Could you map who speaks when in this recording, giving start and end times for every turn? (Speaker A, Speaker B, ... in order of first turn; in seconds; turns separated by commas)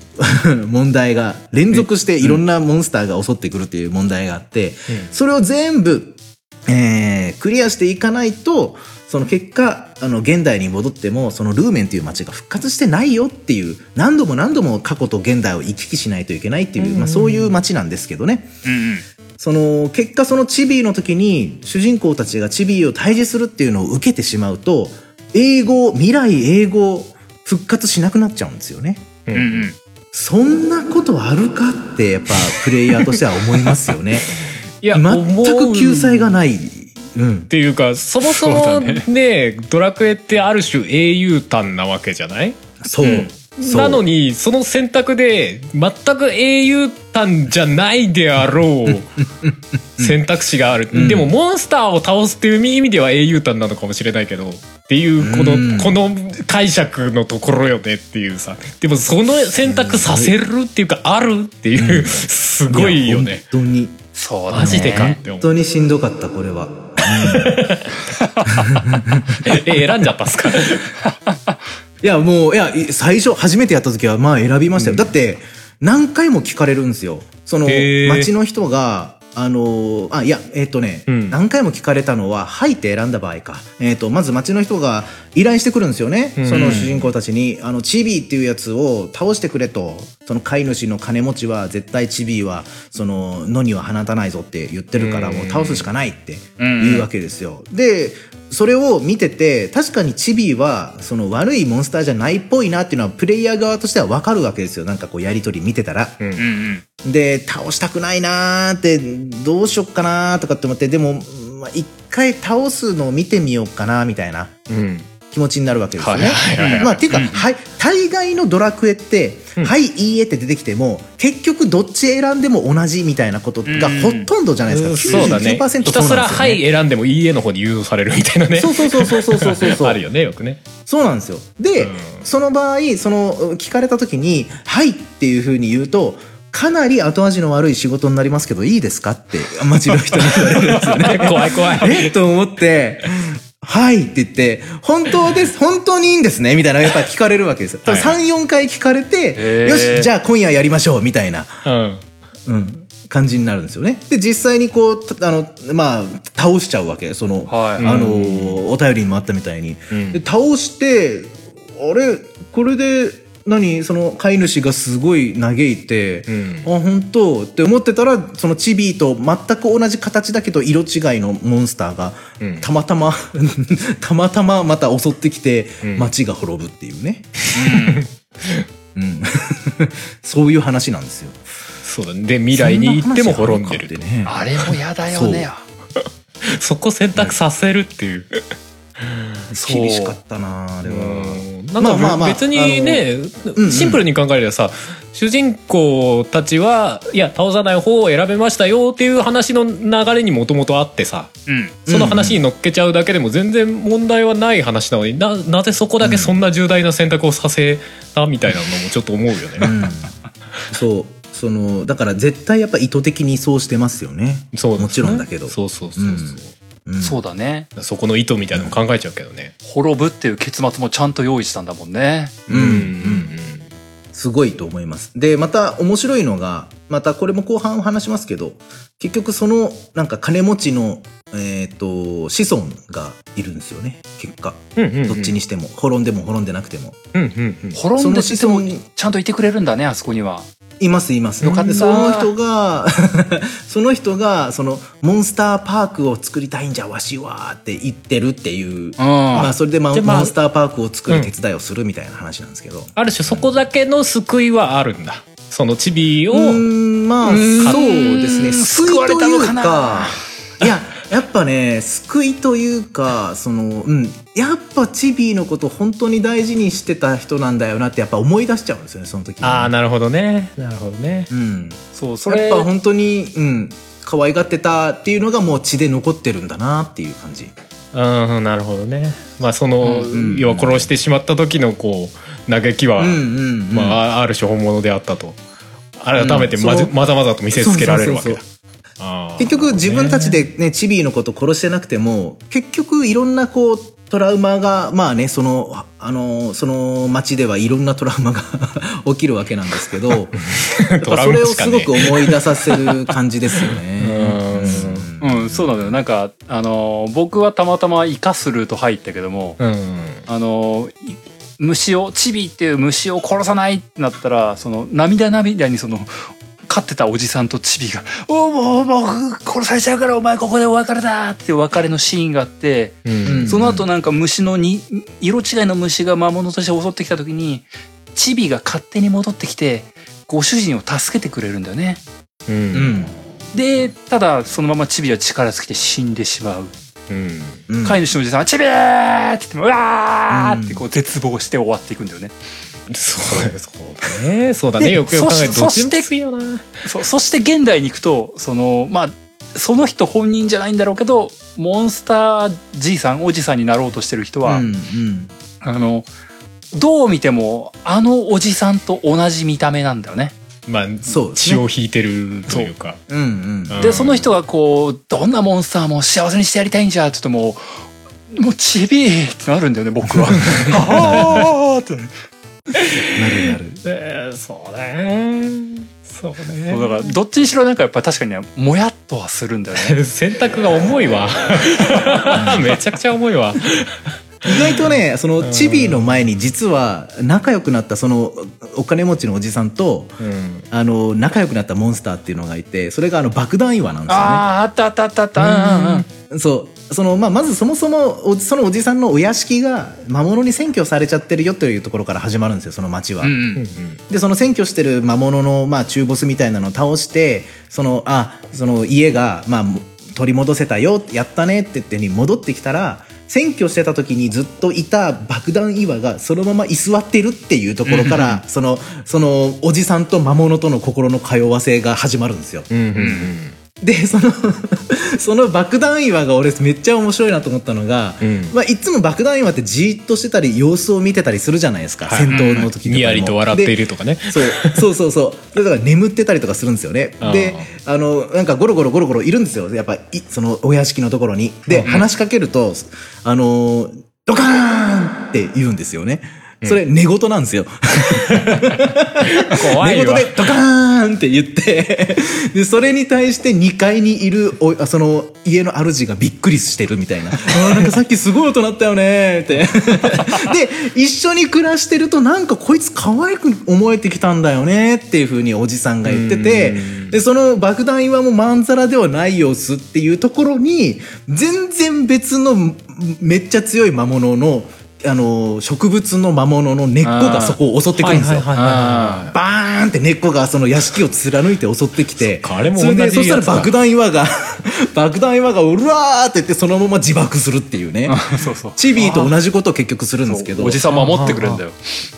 Speaker A: 0.2-18.5, Speaker B: 1.7-2.4, Speaker B: 16.8-17.6, Speaker C: 18.6-19.0, Speaker A: 19.4-29.1, Speaker B: 29.3-29.7, Speaker C: 29.3-29.8, Speaker A: 30.1-34.3, Speaker B: 34.8-36.4, Speaker A: 34.9-37.5, Speaker B: 37.5-49.2, Speaker C: 38.2-39.0, Speaker A: 42.8-44.0, Speaker A: 49.4-50.2, Speaker B: 50.0-63.4, Speaker A: 50.9-51.3, Speaker A: 55.2-56.0, Speaker A: 59.6-60.3, Speaker A: 61.8-64.0, Speaker C: 64.1-65.2, Speaker B: 64.5-65.5, Speaker A: 64.5-67.6, Speaker B: 67.0-68.0, Speaker C: 68.1-68.5, Speaker A: 68.5-70.1, Speaker B: 69.4-70.9, Speaker C: 71.0-71.6, Speaker A: 72.0-106.2, Speaker B: 74.8-75.1, Speaker B: 77.7-78.3, Speaker B: 81.1-81.4, Speaker B: 86.4-87.1, Speaker B: 94.9-95.9, Speaker C: 96.6-97.1, Speaker C: 106.4-106.8, Speaker A: 107.0-114.5, Speaker B: 114.7-115.1, Speaker A: 115.3-126.6, Speaker B: 116.0-117.0, Speaker C: 116.5-117.5, Speaker C: 123.7-124.3, Speaker B: 124.7-130.6, Speaker C: 125.1-125.4, Speaker A: 128.6-130.0, Speaker A: 130.8-151.6, Speaker B: 131.8-132.2, Speaker B: 140.3-142.1, Speaker B: 147.8-148.2, Speaker C: 149.3-150.1, Speaker B: 151.6-152.0, Speaker A: 152.4-177.4, Speaker C: 157.5-158.0, Speaker B: 157.8-158.6, Speaker B: 159.9-160.2, Speaker B: 166.3-166.7, Speaker B: 172.4-172.7, Speaker B: 175.8-176.1, Speaker C: 177.5-178.0, Speaker B: 177.7-178.7, Speaker A: 178.9-181.4, Speaker B: 181.8-184.0, Speaker A: 182.5-184.3, Speaker C: 184.2-185.6, Speaker A: 185.1-185.5, Speaker B: 186.0-188.4, Speaker B: 189.0-189.5, Speaker A: 189.5-193.0, Speaker C: 189.5-190.2, Speaker B: 190.8-201.3, Speaker A: 193.6-194.0, Speaker C: 201.5-201.8, Speaker A: 201.9-202.4, Speaker B: 201.9-209.7, Speaker A: 206.0-206.4, Speaker A: 209.6-210.1, Speaker A: 210.7-217.2, Speaker B: 214.5-216.5, Speaker C: 217.0-217.7, Speaker B: 217.8-219.5, Speaker C: 219.6-222.4, Speaker B: 222.5-223.7, Speaker A: 222.5-223.3, Speaker A: 224.1-237.0, Speaker B: 234.8-235.3, Speaker B: 237.1-237.8, Speaker C: 237.7-240.5, Speaker A: 238.0-238.8, Speaker A: 240.8-253.4, Speaker B: 241.4-242.0, Speaker C: 241.4-242.3, Speaker C: 249.0-249.5, Speaker B: 249.9-250.3, Speaker B: 252.9-256.6, Speaker A: 256.3-269.7, Speaker C: 257.2-260.2, Speaker B: 257.5-257.9, Speaker B: 269.4-271.3, Speaker A: 271.3-277.5, Speaker C: 271.9-272.7, Speaker B: 277.9-285.4, Speaker C: 279.8-280.1, Speaker A: 280.1-280.9, Speaker A: 283.0-284.0, Speaker B: 286.0-288.4, Speaker A: 286.1-286.9, Speaker A: 287.5-288.4, Speaker B: 289.0-290.4, Speaker A: 289.4-300.4, Speaker B: 300.5-303.0, Speaker A: 301.0-305.6, Speaker B: 303.5-305.1, Speaker C: 305.2-309.6, Speaker B: 309.6-310.2, Speaker C: 310.3-332.0, Speaker B: 323.0-323.6, Speaker A: 323.2-323.8, Speaker B: 332.5-333.0, Speaker A: 332.7-333.1, Speaker C: 333.5-336.7, Speaker B: 337.1-337.6, Speaker A: 337.7-338.0, Speaker C: 337.8-342.3, Speaker A: 340.3-340.8, Speaker B: 342.9-346.7, Speaker C: 344.8-346.1, Speaker C: 346.8-354.6, Speaker A: 354.4-355.3, Speaker C: 355.6-356.1, Speaker C: 356.7-360.3, Speaker B: 360.7-363.0, Speaker A: 361.1-361.6, Speaker A: 363.1-363.8, Speaker B: 363.7-364.3, Speaker C: 363.8-367.6, Speaker C: 368.3-372.1, Speaker A: 370.7-371.5, Speaker B: 372.8-377.1, Speaker A: 373.1-373.8, Speaker C: 376.6-380.0, Speaker B: 379.8-384.8, Speaker A: 382.3-382.8, Speaker A: 384.4-390.2, Speaker B: 385.4-386.0, Speaker B: 390.2-390.7, Speaker A: 390.7-394.4, Speaker C: 394.1-396.1, Speaker A: 395.4-403.3, Speaker C: 403.2-403.6, Speaker B: 403.6-404.0, Speaker A: 404.1-422.7, Speaker C: 417.9-418.4, Speaker B: 422.7-423.6, Speaker C: 422.9-423.3, Speaker A: 423.8-433.8, Speaker B: 428.2-428.5, Speaker B: 432.0-434.8, Speaker C: 432.3-432.7, Speaker A: 434.3-491.4, Speaker B: 437.2-437.6, Speaker B: 441.7-442.0, Speaker B: 448.3-450.5, Speaker B: 466.0-467.1, Speaker C: 477.0-477.6, Speaker B: 478.0-479.3, Speaker C: 478.5-479.3, Speaker B: 482.2-483.7, Speaker C: 488.1-489.3, Speaker C: 490.2-491.9, Speaker B: 490.9-491.6